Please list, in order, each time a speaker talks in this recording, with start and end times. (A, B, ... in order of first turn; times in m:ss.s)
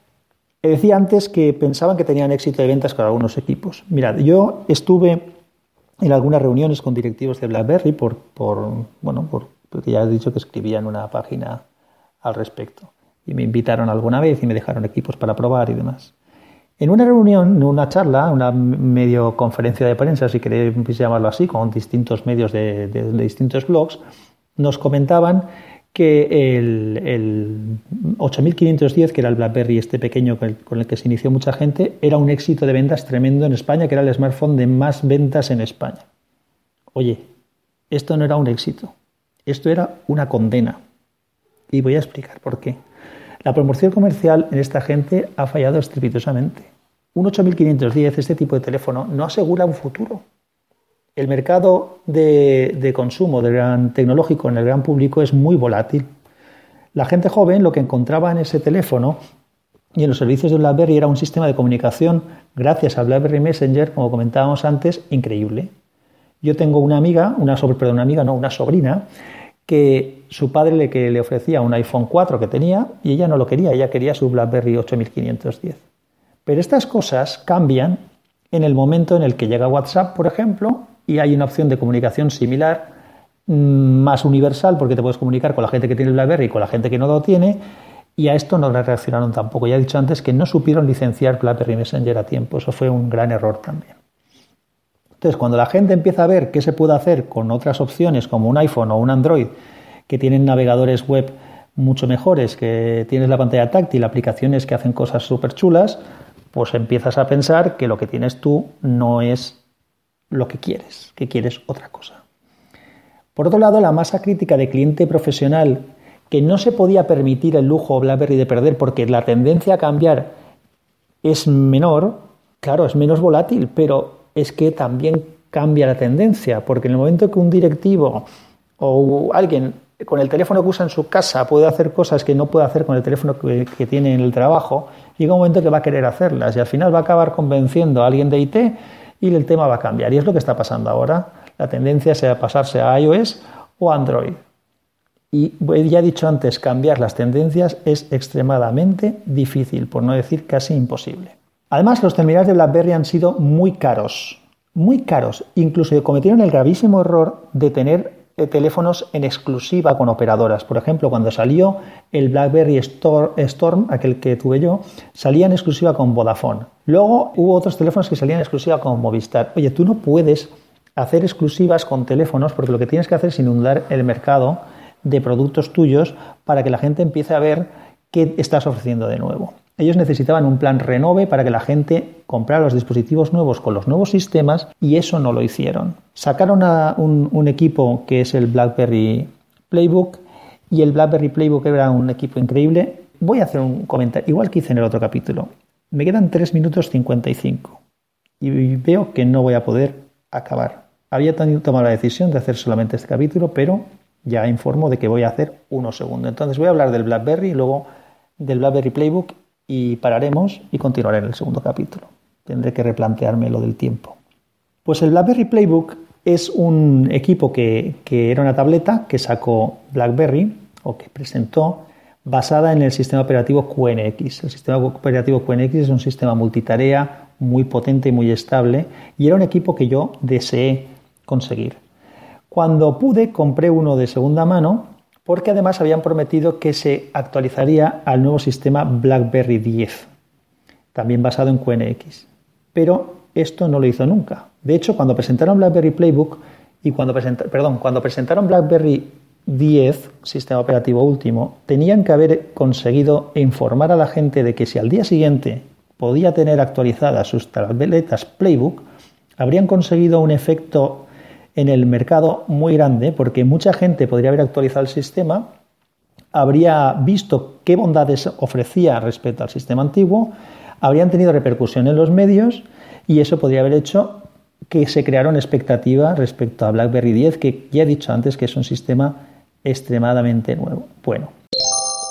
0:00.6-0:05.3 A
0:06.0-0:11.6 A
0:12.2-0:16.1 A
0:16.8-0:24.0 A
0:24.6-0:36.0 A
0:36.9-0:37.3 A
0:37.9-0:38.9 A
0:39.5-0:40.8 A
0:41.7-0:42.8 A
0:43.4-0:50.2 A
0:51.2-0:56.1 A
0:56.9-0:59.2 A
1:00.0-1:05.7 A
1:06.4-1:09.0 A
1:09.7-1:15.8 A
1:16.4-1:22.9 A
1:23.5-1:27.6 A
1:28.2-1:34.0 A
1:35.2-1:39.5 A
1:40.1-1:46.0 A
1:46.5-1:49.6 A
1:50.3-1:52.2 A
1:53.4-2:00.3 A
2:01.2-2:08.3 A
2:08.8-2:24.4 A
2:25.3-3:17.8 A
3:18.4-3:27.9 A
3:28.4-3:34.2 A
3:34.8-3:51.8 A
3:52.5-4:00.1 A
4:00.9-4:18.8 A
4:19.4-4:25.5 A
4:26.3-4:41.3 A